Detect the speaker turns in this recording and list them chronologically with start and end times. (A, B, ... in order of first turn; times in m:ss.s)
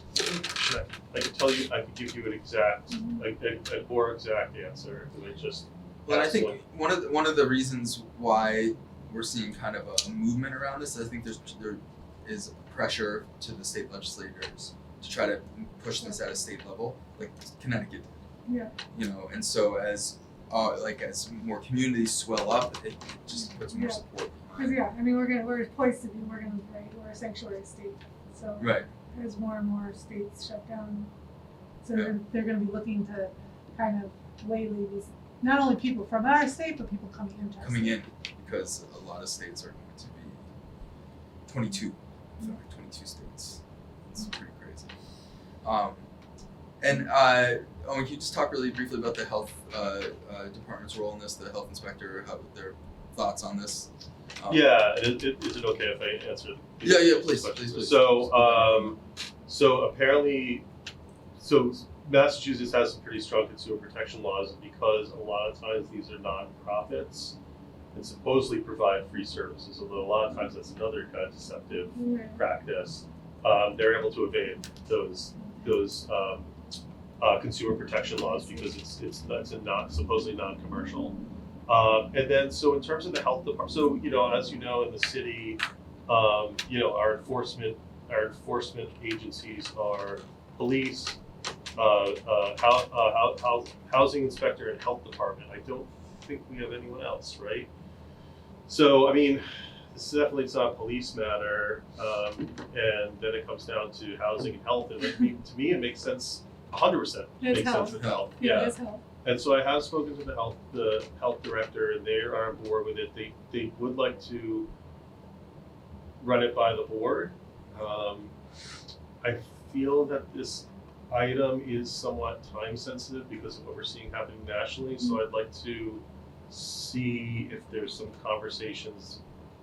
0:00.2-0:06.6 A
0:02.9-0:03.2 B
0:06.1-0:18.1 C
0:18.5-0:18.7 B
0:18.9-0:24.8 C
0:23.6-0:24.0 B
0:24.6-0:31.1 B
0:28.6-0:28.9 C
0:31.8-0:38.0 B
0:37.6-0:40.5 C
0:41.5-0:44.9 C
0:45.6-0:46.0 C
0:46.8-0:54.6 C
0:54.5-1:00.7 A
0:56.8-0:59.0 C
1:01.4-1:07.4 A
1:07.9-1:16.5 A
1:12.0-1:12.4 B
1:17.2-1:21.2 A
1:21.7-1:31.2 A
1:31.8-1:37.7 A
1:38.7-1:54.7 A
1:47.4-1:49.0 B
1:47.8-1:48.3 C
1:56.2-1:58.3 A
1:59.2-2:09.2 A